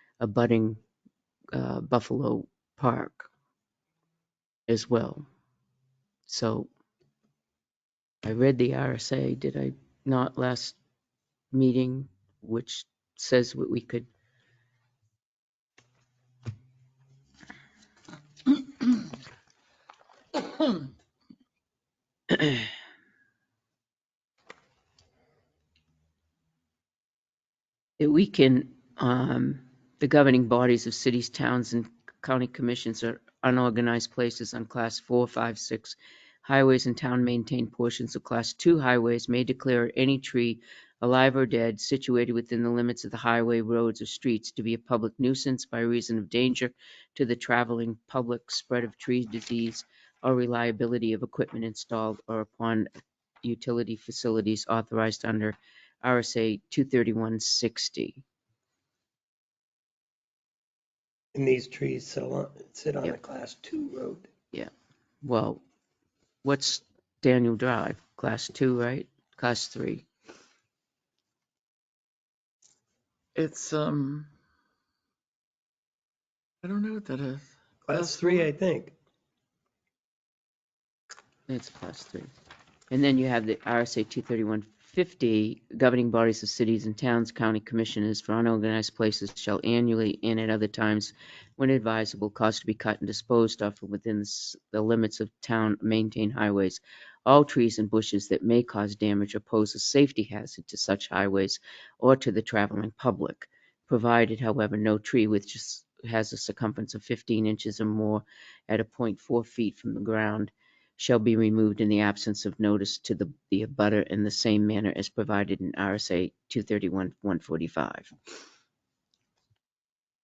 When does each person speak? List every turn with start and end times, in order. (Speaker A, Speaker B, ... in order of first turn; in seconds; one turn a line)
Speaker A: 0.2-0.8
Speaker A: 1.5-3.3
Speaker A: 4.7-5.2
Speaker A: 6.2-6.7
Speaker A: 8.2-10.8
Speaker A: 11.5-14.1
Speaker A: 22.3-22.7
Speaker A: 28.0-52.9
Speaker A: 53.4-58.2
Speaker B: 61.3-64.3
Speaker A: 65.2-65.6
Speaker A: 66.4-70.0
Speaker C: 73.3-74.3
Speaker C: 76.6-78.5
Speaker B: 77.8-78.9
Speaker A: 81.5-82.3
Speaker A: 82.9-118.1